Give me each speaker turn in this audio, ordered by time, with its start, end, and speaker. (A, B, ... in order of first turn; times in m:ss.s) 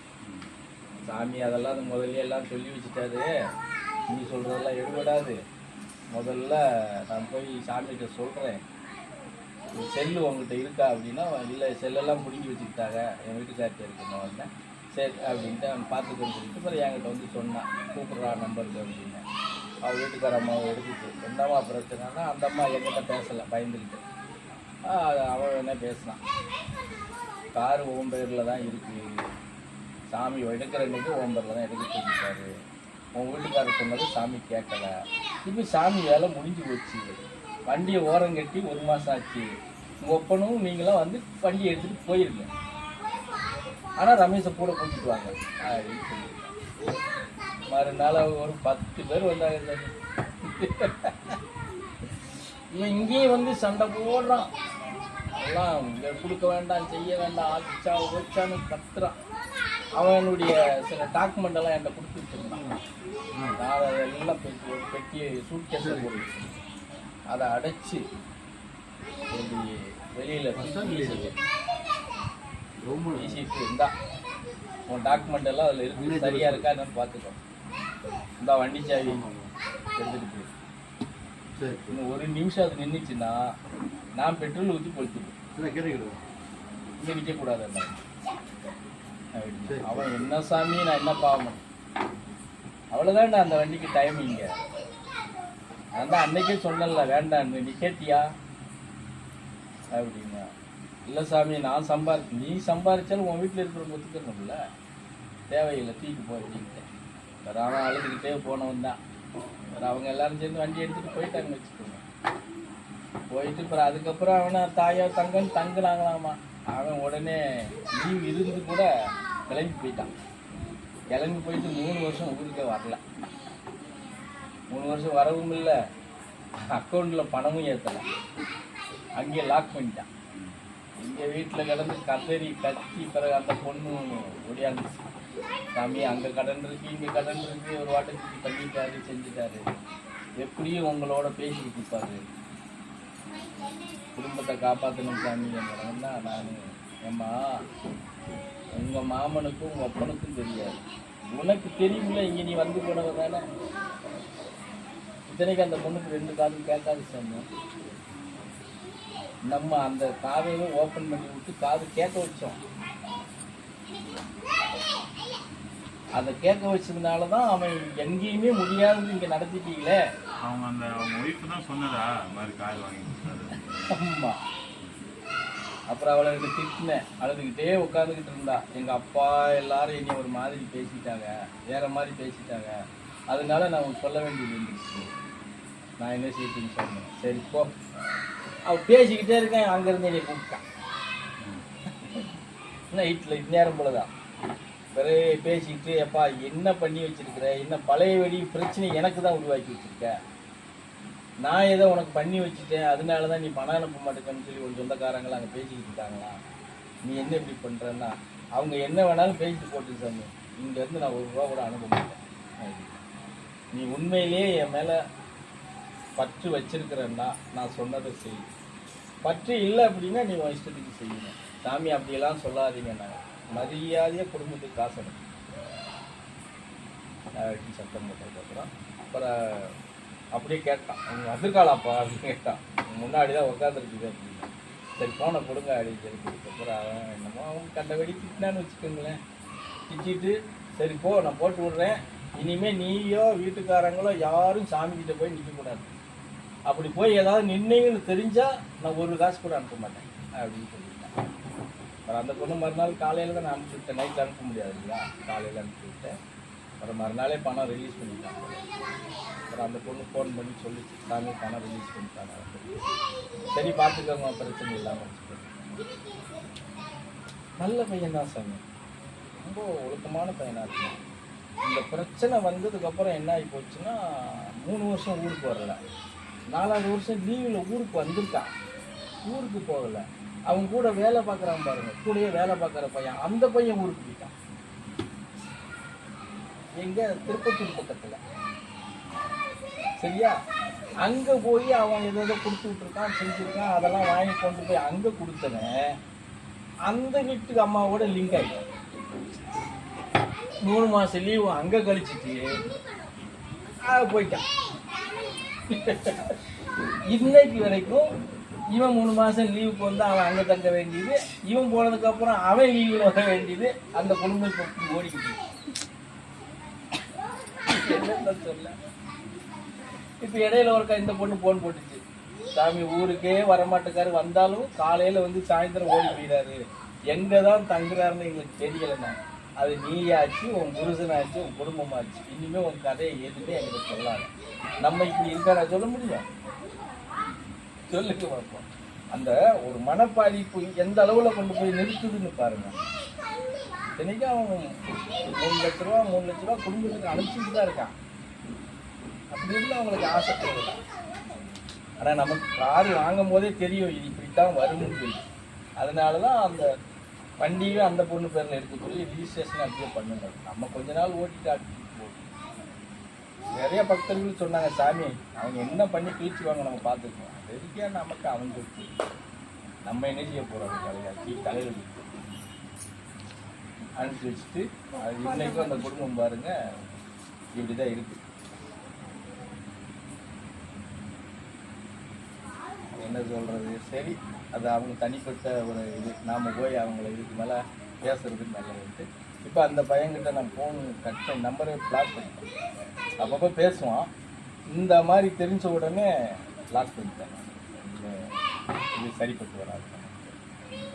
0:00.2-0:00.5 A
0:01.0-0:03.3 B
0:04.1-0:05.4 B
0:06.1-0:08.6 B
0:09.7-0:19.2 B
0:19.8-0:24.0 B
0:24.9-0:26.2 B
0:27.5-0:29.1 B
0:30.1-0:32.5 B
0:33.1-0:39.5 B
0:40.0-0:42.5 B
0:44.0-0:46.5 B
0:47.7-0:51.4 B
0:52.2-0:54.5 B
0:55.4-0:59.2 B
1:00.0-1:02.7 B
1:03.3-1:03.6 C
1:03.6-1:06.6 B
1:05.8-1:06.2 C
1:07.3-1:08.0 B
1:09.3-1:11.4 B
1:10.5-1:11.4 C
1:12.8-1:13.4 C
1:13.1-1:13.9 B
1:14.9-1:17.4 B
1:16.0-1:16.7 C
1:18.4-1:19.2 B
1:19.0-1:19.5 C
1:20.0-1:20.5 B
1:21.6-1:22.0 C
1:21.9-1:23.4 B
1:24.2-1:25.4 B
1:25.5-1:26.2 C
1:27.0-1:28.0 B
1:29.4-1:31.6 B
1:29.6-1:30.2 C
1:32.9-1:34.5 B
1:36.0-1:38.2 B
1:39.9-1:40.5 B
1:41.1-1:44.6 B
1:45.5-1:46.9 B
1:47.4-1:49.0 B
1:49.8-1:52.0 B
1:53.3-1:58.9 B
1:59.5-2:00.1 B
2:01.1-2:03.0 B
2:04.7-2:05.8 B
2:06.7-2:08.0 B
2:09.2-2:10.1 B
2:10.3-2:10.6 A
2:11.0-2:15.0 B
2:15.8-2:19.6 B
2:20.4-2:22.2 B
2:24.2-2:27.3 B
2:28.8-2:30.8 B
2:31.3-2:33.4 B
2:35.3-2:37.4 B
2:39.5-2:42.6 B
2:44.0-2:44.2 A
2:46.1-2:50.0 B
2:50.4-2:54.0 A
2:53.9-2:54.4 B
2:54.8-2:55.1 A
2:55.9-3:02.7 B
3:03.3-3:05.1 B
3:06.0-3:07.7 B
3:08.7-3:10.6 B
3:12.0-3:12.4 B
3:12.9-3:14.1 B
3:14.9-3:20.1 B
3:21.4-3:26.4 B
3:27.0-3:33.0 B
3:33.7-3:35.0 B
3:36.2-3:38.5 B
3:39.2-3:45.2 B
3:47.4-3:49.7 B
3:50.3-3:59.2 B
3:59.9-4:05.9 B
4:06.7-4:11.1 B
4:12.1-4:16.1 B
4:16.8-4:18.6 B
4:19.5-4:22.7 B
4:23.5-4:25.6 B
4:27.6-4:28.6 B
4:29.3-4:31.0 B
4:31.7-4:35.8 B
4:36.5-4:38.5 B
4:39.2-4:44.3 B
4:46.8-4:48.2 B
4:48.8-4:49.3 A
4:50.0-4:50.4 B
4:51.0-4:55.9 B
4:56.9-4:58.6 B
5:00.6-5:02.5 B
5:03.8-5:04.4 B
5:05.7-5:06.4 B
5:07.1-5:08.1 B
5:08.7-5:15.4 B
5:17.7-5:18.7 B
5:20.2-5:22.0 B
5:22.5-5:34.3 B
5:34.8-5:36.2 B
5:37.2-5:37.6 A
5:37.9-5:42.8 B
5:44.0-5:44.7 B
5:45.4-5:47.9 B
5:49.3-5:50.8 B
5:52.0-5:55.2 B
5:55.8-5:56.7 B
5:57.4-6:02.3 B
6:03.6-6:08.9 B
6:09.8-6:12.1 B
6:14.0-6:16.5 B
6:17.5-6:18.2 B
6:23.0-6:32.5 B
6:33.2-6:34.1 B
6:34.7-6:36.1 B
6:36.7-6:38.3 B
6:39.0-6:40.4 B